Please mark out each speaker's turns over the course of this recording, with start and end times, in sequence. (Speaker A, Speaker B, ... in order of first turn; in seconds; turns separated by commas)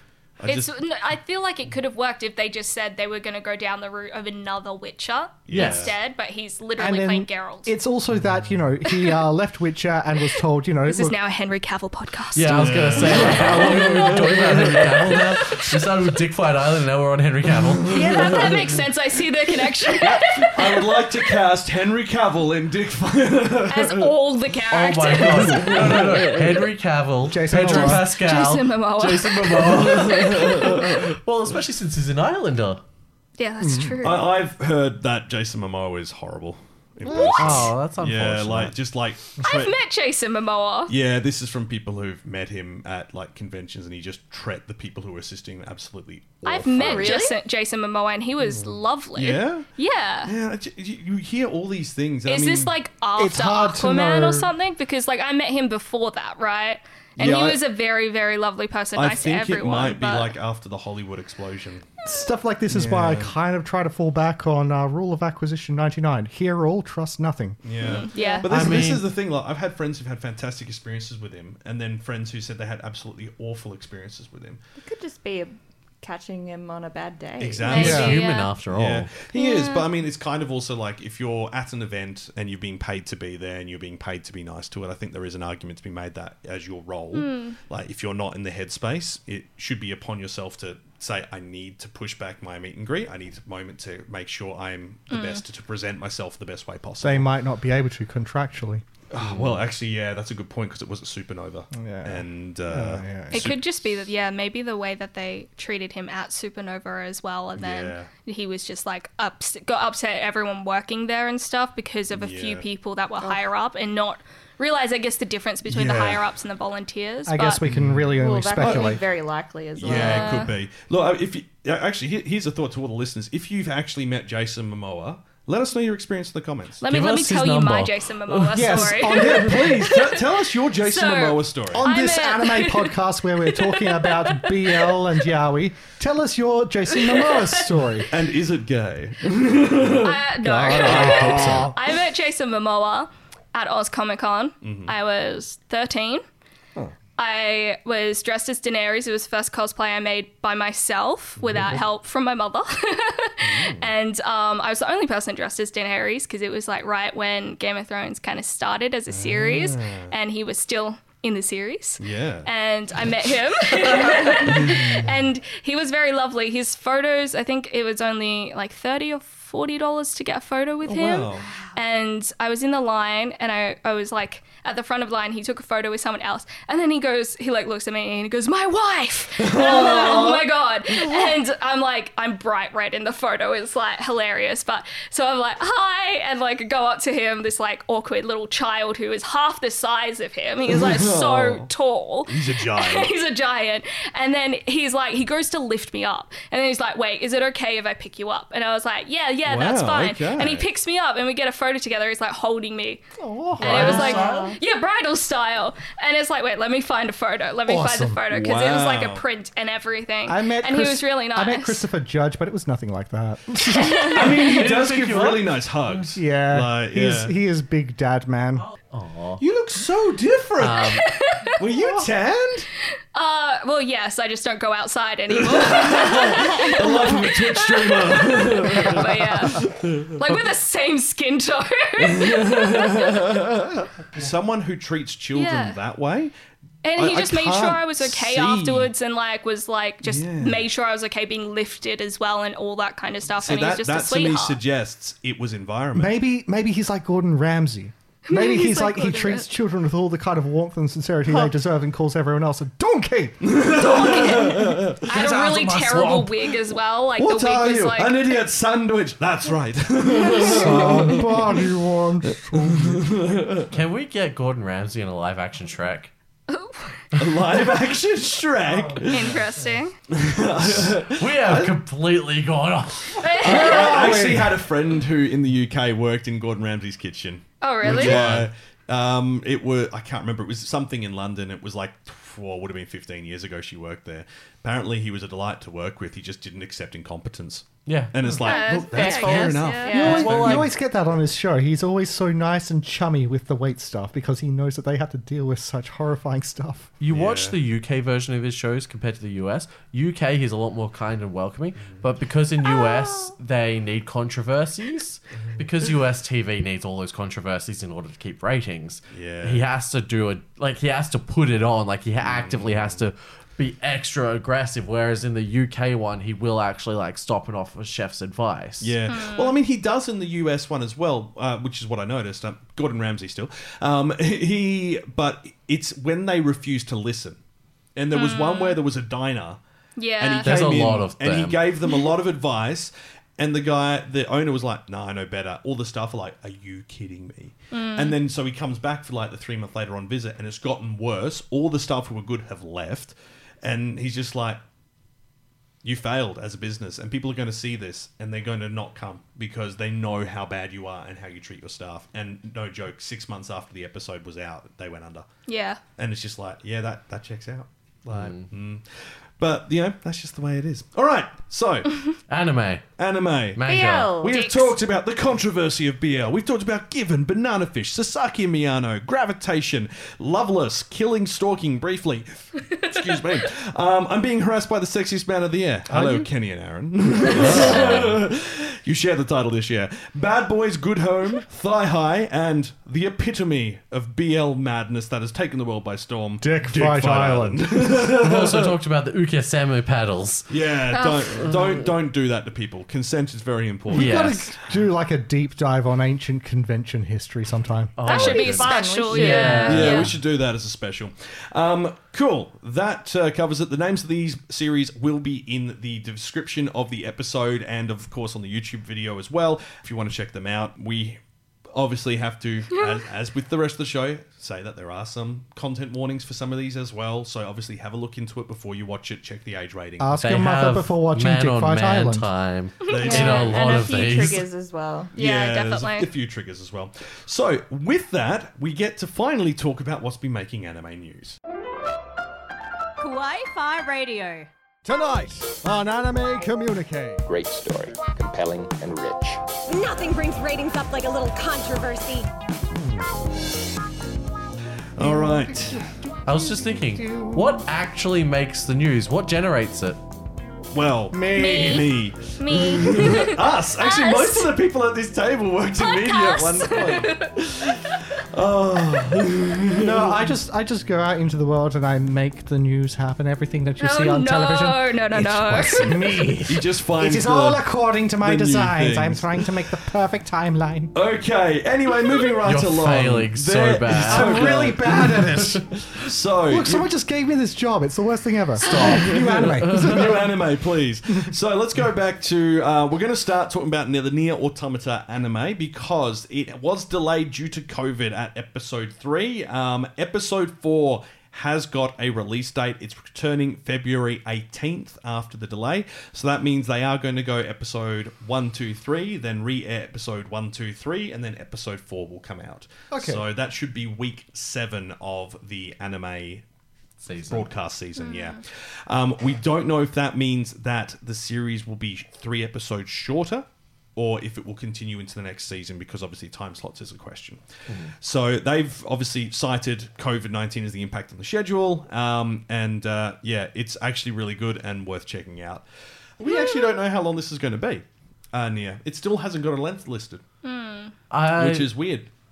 Speaker A: 0.4-0.7, Speaker B: 0.4-7.8, Speaker A: 5.5-5.9, Speaker C: 5.5-5.9, Speaker D: 6.8-11.2, Speaker B: 8.9-9.2, Speaker B: 10.4-14.3, Speaker C: 12.3-18.4, Speaker A: 12.5-15.2, Speaker B: 15.0-15.7, Speaker A: 17.7-18.7, Speaker B: 17.9-21.1, Speaker A: 20.0-24.1, Speaker B: 23.7-26.0, Speaker C: 24.7-32.8, Speaker A: 25.2-26.5, Speaker D: 27.3-28.1, Speaker B: 27.7-30.8, Speaker A: 29.6-31.2, Speaker B: 33.4-34.3, Speaker D: 33.6-34.0, Speaker A: 34.0-39.8, Speaker D: 37.0-37.7, Speaker C: 37.2-38.8, Speaker B: 39.4-40.9, Speaker A: 40.9-47.2, Speaker B: 46.5-50.3, Speaker E: 46.7-47.4, Speaker A: 48.4-49.7, Speaker A: 50.2-52.7, Speaker B: 52.3-60.4, Speaker D: 53.2-54.5, Speaker A: 57.2-57.6, Speaker A: 59.0-61.9, Speaker D: 62.0-67.6, Speaker A: 62.7-63.3, Speaker A: 67.6-74.6, Speaker B: 67.8-68.4, Speaker E: 68.1-68.5, Speaker C: 68.4-69.1, Speaker E: 74.8-78.0, Speaker A: 77.4-97.3, Speaker B: 77.6-78.5, Speaker C: 77.7-79.1, Speaker D: 77.8-78.2, Speaker B: 79.3-79.9, Speaker B: 87.1-87.6, Speaker B: 95.1-95.4, Speaker D: 97.0-98.8, Speaker A: 99.1-103.6, Speaker D: 101.7-103.5, Speaker B: 103.3-117.6, Speaker A: 107.6-108.1, Speaker A: 112.1-112.7, Speaker A: 115.7-116.3, Speaker D: 117.3-119.0, Speaker A: 117.7-119.0, Speaker E: 118.2-120.5, Speaker A: 119.8-126.8, Speaker B: 119.8-120.5, Speaker B: 126.8-135.1, Speaker C: 126.8-129.3, Speaker D: 128.5-130.0, Speaker A: 129.3-131.9, Speaker D: 131.7-138.1, Speaker B: 136.9-137.7, Speaker A: 138.1-141.7, Speaker B: 140.0-146.2, Speaker D: 140.4-141.8, Speaker A: 144.6-144.9, Speaker B: 147.2-203.0, Speaker A: 151.4-151.8, Speaker A: 153.4-153.9, Speaker A: 159.1-160.1, Speaker A: 162.0-162.5, Speaker A: 164.1-165.2, Speaker A: 170.8-171.5, Speaker E: 171.4-171.7, Speaker A: 179.4-180.5, Speaker A: 190.7-191.7, Speaker A: 192.3-193.1, Speaker A: 199.5-200.7, Speaker D: 203.2-204.2, Speaker C: 203.6-204.6, Speaker B: 203.6-211.8, Speaker E: 203.7-204.6, Speaker D: 207.7-208.2, Speaker A: 208.3-209.2, Speaker D: 210.3-214.3, Speaker B: 213.8-214.3, Speaker A: 214.1-217.4, Speaker C: 214.4-216.1, Speaker D: 216.2-218.7, Speaker C: 218.7-219.4, Speaker A: 219.4-221.0, Speaker C: 220.6-221.1, Speaker B: 220.8-221.6, Speaker A: 221.6-222.7, Speaker B: 223.1-233.4, Speaker A: 225.3-230.2, Speaker A: 232.0-236.3, Speaker B: 235.3-235.8, Speaker B: 236.8-244.6, Speaker A: 237.0-238.9, Speaker A: 240.0-240.7, Speaker A: 243.4-246.2, Speaker D: 245.9-253.4, Speaker B: 248.3-249.5, Speaker A: 253.4-255.2, Speaker B: 253.6-258.4, Speaker C: 255.1-256.2, Speaker A: 257.2-261.6, Speaker D: 260.3-263.1, Speaker A: 262.3-263.7, Speaker C: 263.7-266.1, Speaker B: 266.5-267.0, Speaker A: 267.2-269.4, Speaker D: 268.7-269.4, Speaker B: 269.1-269.9, Speaker A: 270.1-271.8, Speaker C: 270.8-273.4, Speaker B: 273.2-274.2, Speaker A: 273.4-290.7, Speaker D: 273.4-274.6, Speaker B: 277.6-278.2, Speaker C: 277.9-278.5, Speaker C: 287.9-288.2, Speaker B: 288.4-290.2, Speaker E: 288.5-290.4, Speaker C: 289.1-290.7, Speaker D: 289.9-296.9, Speaker C: 297.0-319.0, Speaker A: 297.1-297.6, Speaker A: 301.8-302.1, Speaker A: 309.1-309.7, Speaker A: 312.2-313.1, Speaker A: 318.8-327.4, Speaker B: 319.1-319.6, Speaker A: 328.0-329.6, Speaker B: 328.1-328.8, Speaker B: 330.0-330.6, Speaker A: 330.2-344.6, Speaker C: 330.4-331.7, Speaker B: 337.7-338.2, Speaker A: 345.8-355.3, Speaker B: 355.5-355.8, Speaker A: 356.0-362.1, Speaker C: 358.1-358.5, Speaker C: 362.3-362.8, Speaker A: 363.0-363.6, Speaker C: 363.6-364.2, Speaker E: 363.7-364.5, Speaker A: 364.2-388.8, Speaker B: 364.2-364.7, Speaker B: 372.7-373.0, Speaker D: 375.9-376.3, Speaker C: 377.3-378.1, Speaker B: 377.5-377.9, Speaker D: 386.4-387.9, Speaker C: 388.1-390.5, Speaker A: 390.5-394.5, Speaker B: 390.9-391.5, Speaker C: 391.4-391.9, Speaker C: 393.9-394.5, Speaker D: 393.9-397.9, Speaker C: 398.0-400.2, Speaker E: 398.0-400.0, Speaker B: 398.1-400.1, Speaker A: 399.7-411.2, Speaker A: 411.7-420.2, Speaker D: 420.0-422.3, Speaker C: 420.2-424.5, Speaker B: 422.9-424.4, Speaker A: 422.9-423.6, Speaker E: 423.0-425.1, Speaker A: 425.1-431.4, Speaker B: 425.1-426.1, Speaker F: 433.0-434.5, Speaker D: 434.8-437.2, Speaker G: 437.2-439.4, Speaker F: 439.7-442.3, Speaker A: 445.0-445.8, Speaker D: 445.0-447.6, Speaker C: 446.3-450.0, Speaker A: 450.7-460.3, Speaker D: 451.1-451.8, Speaker B: 451.3-454.6, Speaker B: 455.8-457.4, Speaker D: 459.8-470.9, Speaker B: 463.8-466.2, Speaker A: 466.4-469.6, Speaker A: 470.9-476.9, Speaker C: 472.4-475.5, Speaker D: 474.1-475.7, Speaker D: 476.5-480.3, Speaker A: 478.7-506.4, Speaker C: 478.7-480.2, Speaker D: 481.1-481.3, Speaker D: 502.9-503.2, Speaker C: 507.0-507.5, Speaker A: 507.3-525.6, Speaker B: 508.0-508.4, Speaker A: 526.2-530.2, Speaker B: 526.3-526.7, Speaker B: 530.4-531.0, Speaker C: 531.1-531.8, Speaker A: 531.3-532.1